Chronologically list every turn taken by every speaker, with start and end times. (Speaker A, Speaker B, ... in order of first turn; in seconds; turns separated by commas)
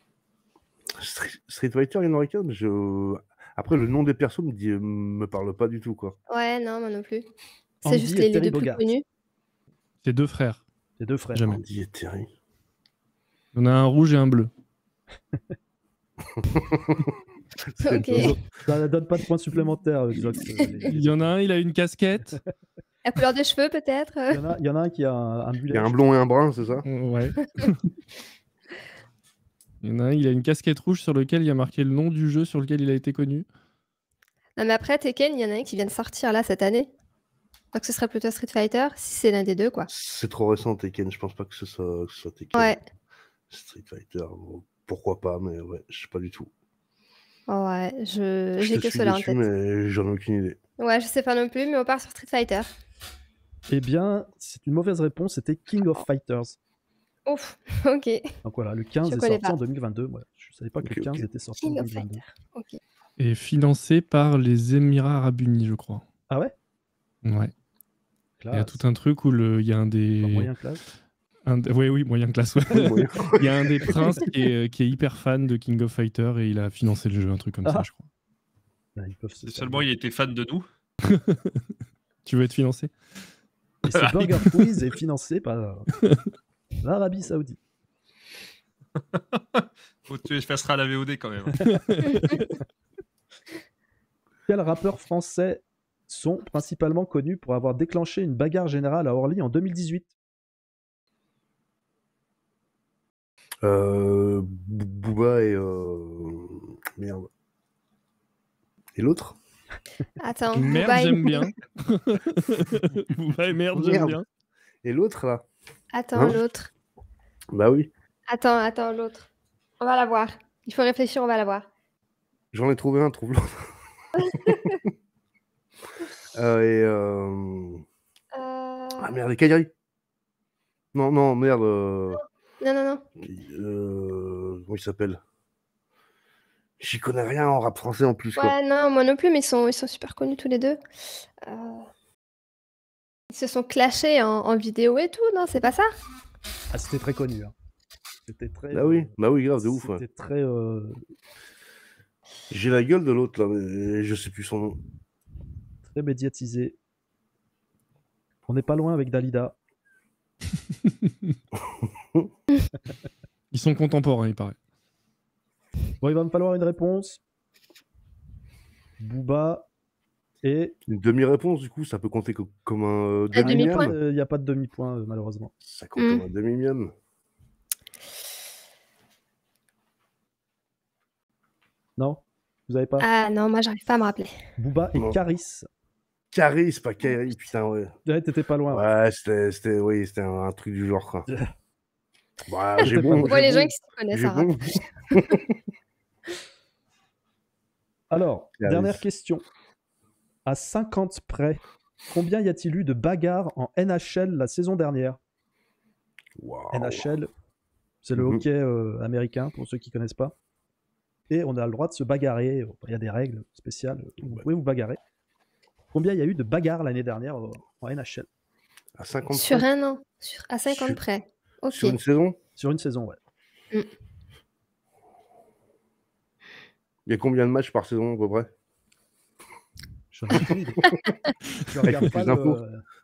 Speaker A: 1.0-6.2, Speaker B: 6.3-7.3, Speaker C: 7.8-8.9, Speaker B: 7.9-9.0, Speaker D: 10.0-10.6, Speaker C: 11.0-11.5, Speaker D: 11.3-11.6, Speaker A: 11.4-12.3, Speaker D: 13.5-14.5, Speaker A: 16.4-17.1, Speaker A: 17.6-18.4, Speaker B: 17.8-18.3, Speaker C: 18.6-21.3, Speaker D: 20.9-22.4, Speaker B: 23.1-24.4, Speaker C: 24.3-26.0, Speaker A: 25.7-26.9, Speaker D: 26.9-27.9, Speaker D: 29.8-33.5, Speaker B: 34.6-36.9, Speaker B: 37.7-39.9, Speaker A: 39.9-42.8, Speaker B: 42.5-42.8, Speaker A: 43.5-46.5, Speaker B: 47.5-49.4, Speaker A: 48.6-50.6, Speaker B: 50.8-52.7, Speaker C: 53.7-56.6, Speaker B: 57.3-58.3, Speaker C: 58.5-62.2, Speaker B: 59.0-59.6, Speaker A: 60.8-61.3, Speaker B: 61.6-62.8, Speaker D: 63.2-66.0, Speaker D: 67.2-67.5, Speaker C: 68.4-68.8, Speaker D: 68.5-70.5, Speaker C: 70.2-70.8, Speaker D: 71.5-78.1, Speaker A: 72.7-73.9, Speaker C: 79.0-79.9, Speaker E: 79.5-80.7, Speaker D: 81.1-81.6, Speaker D: 82.2-82.9, Speaker C: 83.8-85.9, Speaker E: 84.0-84.7, Speaker C: 86.8-87.6, Speaker E: 89.1-91.7, Speaker D: 91.7-92.6, Speaker C: 94.5-100.1, Speaker A: 103.6-107.3, Speaker A: 109.0-109.4, Speaker B: 110.2-111.5, Speaker D: 110.5-114.2, Speaker A: 113.7-114.2, Speaker A: 114.8-115.5, Speaker B: 115.9-116.7, Speaker A: 116.2-116.4, Speaker A: 117.5-117.9, Speaker B: 118.3-119.3, Speaker B: 119.8-121.7, Speaker A: 122.5-123.7, Speaker B: 124.2-124.8, Speaker A: 124.4-124.8, Speaker A: 126.3-127.8, Speaker B: 128.3-129.1, Speaker A: 129.0-129.7, Speaker A: 130.9-132.2, Speaker B: 132.6-133.0, Speaker A: 133.2-135.2, Speaker A: 136.8-138.6, Speaker B: 138.4-140.8, Speaker B: 141.4-141.9, Speaker B: 143.3-145.9, Speaker C: 146.7-147.5, Speaker C: 148.3-151.0, Speaker A: 148.7-150.0, Speaker A: 152.5-154.8, Speaker C: 155.9-156.8, Speaker C: 158.5-159.6, Speaker A: 161.8-162.3, Speaker D: 163.5-164.6, Speaker C: 166.0-167.2, Speaker C: 169.0-169.7, Speaker C: 170.4-170.8, Speaker A: 170.9-173.9, Speaker B: 173.3-173.9, Speaker C: 173.4-175.5, Speaker A: 175.6-176.9, Speaker B: 176.0-176.2, Speaker C: 182.0-183.1, Speaker B: 183.0-184.3, Speaker C: 184.6-185.7, Speaker A: 186.3-187.9, Speaker C: 188.1-188.9, Speaker A: 188.7-191.3, Speaker A: 192.5-195.5, Speaker C: 192.8-193.7, Speaker B: 193.0-194.7, Speaker C: 198.1-199.4, Speaker A: 198.6-199.0, Speaker C: 200.5-205.2, Speaker A: 206.4-207.1, Speaker C: 206.7-207.3, Speaker C: 208.0-210.3, Speaker A: 208.2-208.4, Speaker C: 211.3-215.0, Speaker A: 214.2-214.5, Speaker C: 215.9-218.3, Speaker A: 219.0-219.7, Speaker B: 219.3-222.0, Speaker A: 220.7-221.0, Speaker A: 221.7-222.4, Speaker C: 222.6-223.2, Speaker A: 227.1-228.5, Speaker C: 230.1-230.9, Speaker C: 231.7-232.8, Speaker A: 231.8-232.6